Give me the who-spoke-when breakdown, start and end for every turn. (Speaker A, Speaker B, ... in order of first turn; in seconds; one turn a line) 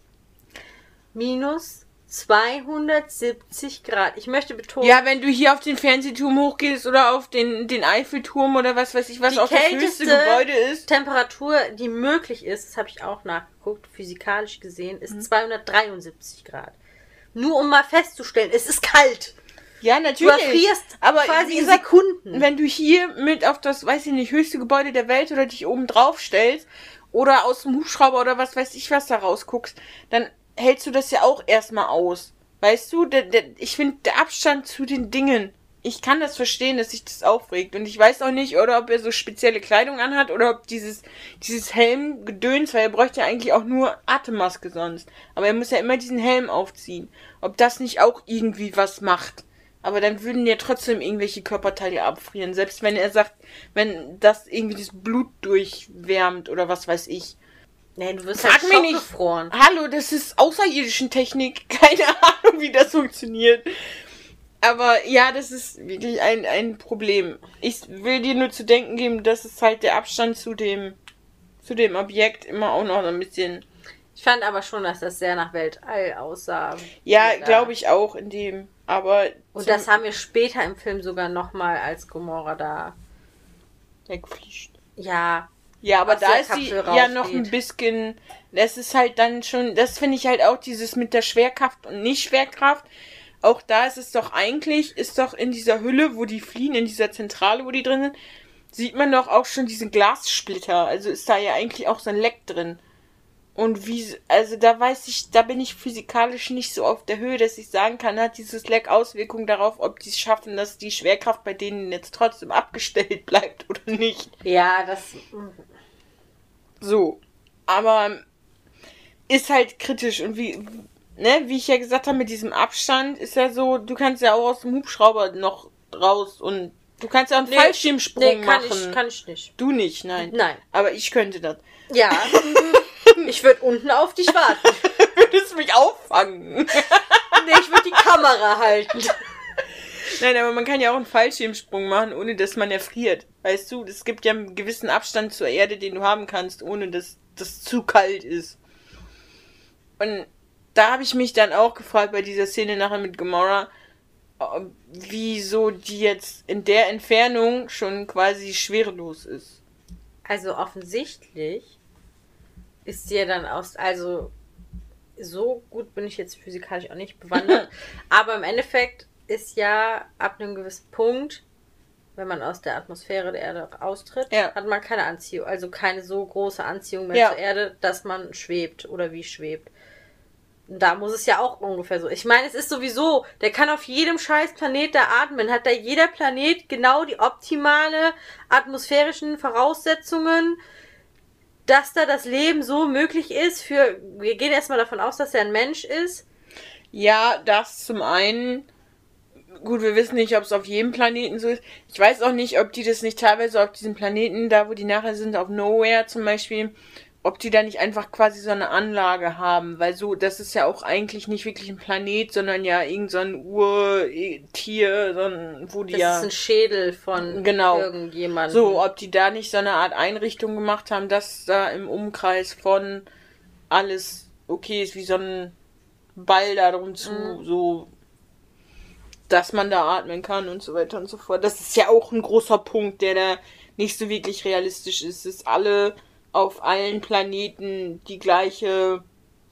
Speaker A: 1.1-5.0
Speaker B: 4.8-10.9
Speaker A: 9.3-16.8
Speaker A: 17.3-19.4
Speaker B: 19.8-57.4
Speaker A: 20.2-22.4
Speaker A: 58.0-59.5
Speaker B: 58.4-63.7
Speaker B: 64.6-71.0
Speaker B: 71.6-73.6
Speaker A: 74.1-77.7
Speaker B: 77.0-79.9
Speaker A: 79.5-83.0
Speaker B: 84.1-84.7
Speaker A: 85.0-85.5
Speaker B: 85.8-92.9
Speaker A: 86.0-87.5
Speaker B: 93.4-98.1
Speaker B: 98.7-102.8
Speaker B: 103.5-114.3
Speaker A: 114.4-115.6
Speaker B: 116.8-118.2
Speaker B: 119.3-129.0
Speaker A: 127.5-129.5
Speaker B: 129.6-131.6
Speaker A: 130.2-130.6
Speaker A: 131.9-134.9
Speaker B: 132.1-133.3
Speaker B: 134.6-137.9
Speaker A: 137.3-139.3
Speaker B: 140.0-148.6
Speaker B: 150.0-153.7
Speaker B: 154.4-159.6
Speaker A: 160.3-161.8
Speaker A: 162.8-164.3
Speaker A: 165.2-171.4
Speaker A: 172.2-179.7
Speaker A: 180.7-190.6
Speaker A: 191.7-196.2
Speaker B: 196.9-198.7
Speaker B: 199.6-216.3
Speaker A: 215.9-218.8
Speaker B: 217.2-217.9
Speaker B: 218.5-223.1
Speaker B: 223.7-225.6
Speaker B: 226.1-227.9
Speaker A: 227.0-227.4
Speaker B: 229.3-239.0